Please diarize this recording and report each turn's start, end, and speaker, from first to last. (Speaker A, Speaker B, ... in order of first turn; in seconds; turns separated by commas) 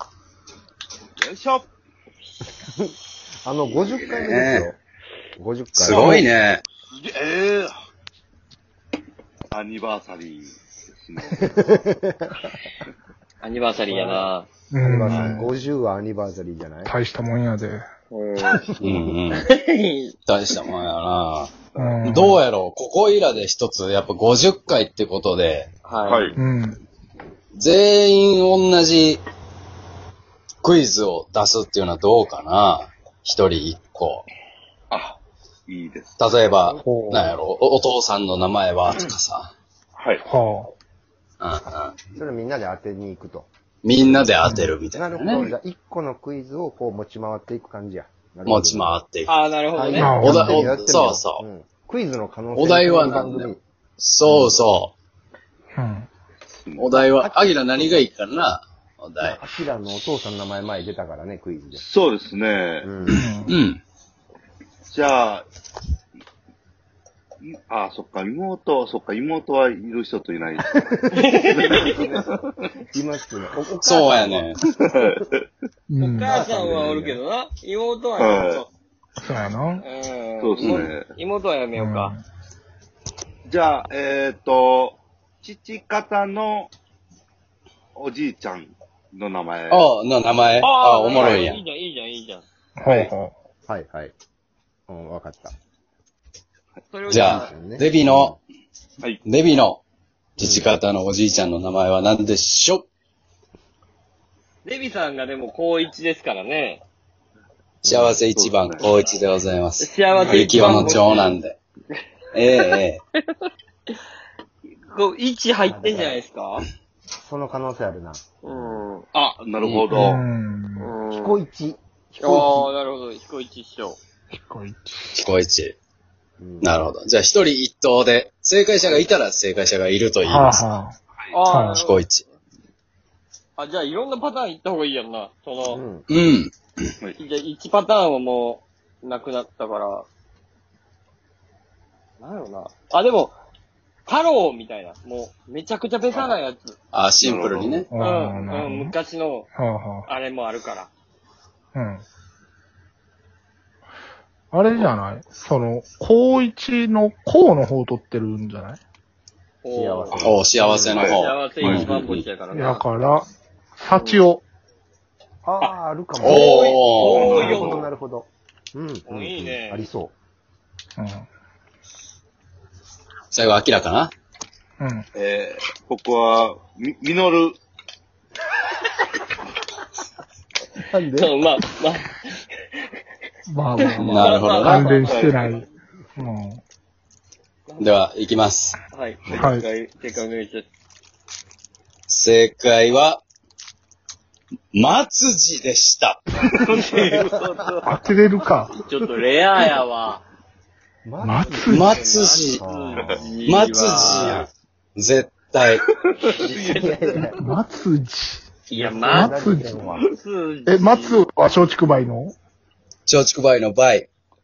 Speaker A: 1.2-1.7, Speaker B: 2.6-4.8, Speaker C: 4.0-4.7, Speaker B: 5.4-6.2, Speaker C: 5.8-6.6, Speaker A: 6.8-7.7, Speaker A: 9.5-11.8, Speaker B: 11.4-12.5, Speaker D: 13.4-14.5, Speaker B: 13.9-14.3, Speaker E: 14.7-15.4, Speaker B: 14.8-16.9, Speaker A: 15.1-15.5, Speaker E: 16.9-17.9, Speaker D: 18.1-18.7, Speaker B: 18.4-18.9, Speaker C: 18.8-19.5, Speaker D: 19.4-20.2, Speaker C: 20.3-25.7, Speaker E: 21.8-22.4, Speaker D: 25.9-26.4, Speaker A: 26.1-26.4, Speaker E: 26.4-26.8, Speaker C: 27.6-29.2, Speaker C: 30.6-34.3, Speaker A: 34.9-35.2, Speaker A: 35.7-36.1, Speaker C: 36.2-39.5, Speaker B: 36.5-37.3, Speaker E: 36.8-37.3, Speaker A: 40.0-40.2, Speaker E: 40.2-40.7, Speaker C: 41.4-42.0, Speaker B: 42.1-43.5, Speaker C: 43.8-45.5, Speaker B: 44.0-44.3, Speaker E: 44.4-44.7, Speaker B: 44.9-49.0, Speaker C: 48.5-49.4, Speaker D: 49.3-50.1, Speaker B: 49.7-53.6, Speaker E: 50.0-50.7, Speaker C: 50.0-51.4, Speaker C: 52.5-54.9, Speaker B: 54.2-54.6, Speaker E: 55.8-56.1, Speaker C: 56.8-59.4, Speaker B: 56.9-58.1, Speaker B: 59.2-61.8, Speaker A: 61.8-62.9, Speaker B: 62.8-63.2, Speaker E: 63.1-63.5, Speaker C: 63.5-63.8, Speaker A: 64.9-65.5, Speaker A: 67.4-72.5, Speaker B: 70.7-72.3, Speaker D: 71.1-72.0, Speaker B: 72.9-75.1, Speaker C: 73.8-74.6, Speaker A: 74.9-75.5, Speaker E: 75.9-76.3, Speaker D: 76.0-78.7, Speaker B: 76.3-77.2, Speaker A: 78.2-78.6, Speaker E: 79.2-79.8, Speaker D: 79.8-82.2, Speaker A: 80.4-81.1, Speaker C: 80.6-80.9, Speaker E: 81.8-82.2, Speaker A: 83.5-86.7, Speaker A: 88.0-89.9, Speaker C: 89.7-91.6, Speaker D: 90.6-92.5, Speaker A: 91.1-91.5, Speaker E: 92.8-93.3, Speaker B: 93.7-94.1, Speaker B: 94.9-95.5, Speaker D: 96.9-97.5, Speaker C: 97.1-98.4, Speaker B: 97.1-98.4, Speaker C: 99.2-99.8, Speaker C: 100.4-102.9, Speaker B: 100.4-100.7, Speaker D: 104.7-106.8, Speaker B: 107.8-108.2, Speaker C: 107.8-111.6, Speaker A: 108.3-108.9, Speaker D: 109.8-111.3, Speaker C: 112.3-113.0, Speaker D: 114.9-116.7, Speaker B: 115.7-116.2, Speaker B: 117.2-118.8, Speaker D: 118.4-119.0, Speaker A: 119.1-120.2, Speaker C: 119.6-120.1, Speaker E: 119.9-121.0, Speaker D: 120.8-121.4, Speaker B: 121.1-122.7, Speaker D: 122.2-124.0, Speaker E: 124.3-125.2, Speaker C: 125.1-125.8, Speaker B: 126.4-126.7, Speaker C: 126.6-130.6, Speaker E: 130.2-130.9, Speaker D: 131.3-132.0, Speaker E: 131.5-131.8, Speaker C: 131.8-132.2, Speaker D: 133.6-135.8, Speaker B: 135.7-136.1, Speaker C: 136.1-136.9, Speaker D: 137.2-140.1, Speaker D: 142.2-143.4, Speaker D: 144.1-146.8, Speaker C: 146.9-147.9, Speaker A: 147.2-147.8, Speaker E: 147.9-148.9, Speaker D: 148.0-149.5, Speaker E: 149.6-150.1, Speaker D: 150.1-150.9, Speaker E: 151.8-152.0, Speaker E: 154.5-158.8, Speaker D: 159.6-160.1, Speaker B: 159.7-161.1, Speaker C: 160.2-162.0, Speaker A: 161.0-162.2, Speaker D: 161.1-162.9, Speaker B: 161.6-162.2, Speaker E: 162.5-163.3, Speaker E: 163.8-164.4, Speaker D: 163.9-164.2, Speaker B: 165.4-170.1, Speaker D: 165.6-167.8, Speaker C: 166.2-167.3, Speaker A: 167.0-167.9, Speaker E: 167.3-167.6, Speaker D: 169.1-169.9, Speaker E: 171.0-171.2, Speaker C: 173.3-174.1, Speaker E: 174.8-175.1, Speaker A: 175.2-177.6, Speaker B: 180.8-181.4, Speaker D: 181.2-182.2, Speaker E: 183.5-185.7, Speaker D: 183.8-185.4, Speaker C: 184.0-184.9, Speaker A: 184.9-185.6, Speaker E: 186.2-186.6, Speaker D: 187.7-188.0, Speaker C: 187.8-188.8, Speaker D: 188.9-190.7, Speaker E: 189.3-189.7, Speaker C: 192.1-193.2, Speaker C: 194.7-196.2, Speaker A: 196.6-197.8, Speaker D: 196.8-197.1, Speaker E: 197.8-198.7, Speaker D: 198.8-200.2, Speaker B: 201.1-201.8, Speaker E: 201.2-202.0, Speaker D: 201.7-204.5, Speaker C: 201.7-202.6, Speaker B: 202.4-203.5, Speaker C: 203.5-205.8, Speaker A: 204.0-204.4, Speaker A: 206.2-206.9, Speaker D: 206.2-207.1, Speaker B: 206.7-207.4, Speaker E: 207.4-208.6, Speaker D: 208.7-209.4, Speaker B: 208.7-210.1, Speaker E: 209.1-209.8, Speaker D: 210.1-211.3, Speaker E: 210.7-212.3, Speaker C: 213.1-214.1